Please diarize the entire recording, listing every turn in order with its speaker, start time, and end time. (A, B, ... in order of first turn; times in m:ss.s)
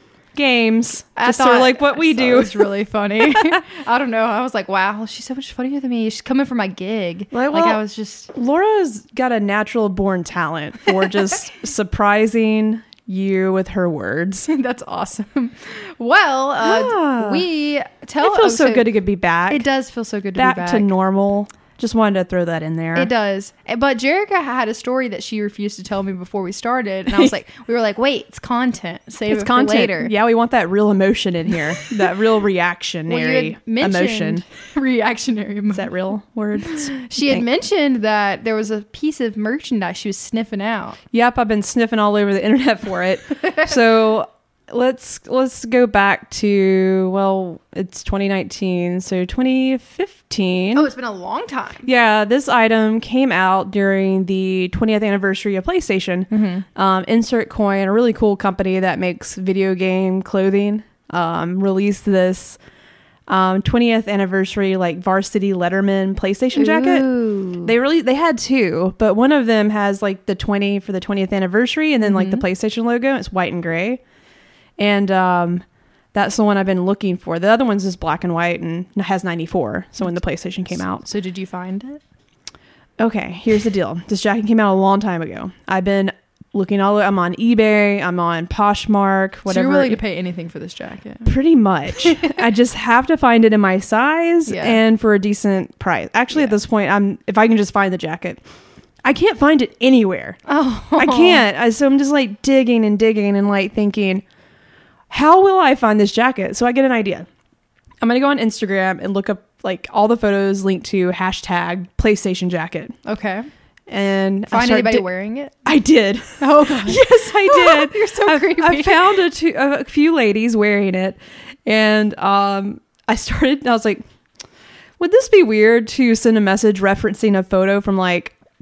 0:00.3-0:02.7 A
0:01.2-0:08.3 B
0:03.2-0:03.6 A
0:07.3-0:07.8 A
0:08.3-0:14.5 A
0:14.5-0:18.9 B
0:16.6-0:17.4 A
0:18.2-0:19.6 A
0:19.5-0:20.9 B
0:20.4-0:23.1 A
0:22.9-0:30.1 B
0:29.3-0:34.4 A
0:33.1-0:35.9 B
0:35.7-0:37.4 A
0:36.6-0:41.0 B
0:41.1-0:50.9 A
0:50.7-0:51.8 B
0:51.8-1:02.6 A
0:56.3-0:56.6 B
1:03.3-1:07.0 A
1:06.5-1:07.7 B
1:07.6-1:14.0 A
1:12.0-1:12.4 B
1:14.8-1:21.0 A
1:21.0-1:22.0 B
1:23.0-1:30.0 A
1:29.5-1:31.3 B
1:31.2-1:38.4 A
1:31.9-1:32.4 B
1:34.4-1:34.8 B
1:39.0-1:40.4 A
1:40.5-1:41.4 B
1:41.0-1:44.2 A
1:45.1-1:47.3 A
1:48.0-1:52.9 A
1:53.0-1:53.5 B
1:53.9-1:55.1 A
1:54.5-1:55.6 B
1:55.6-2:04.0 A
1:56.4-1:59.1 B
2:05.0-2:08.3 A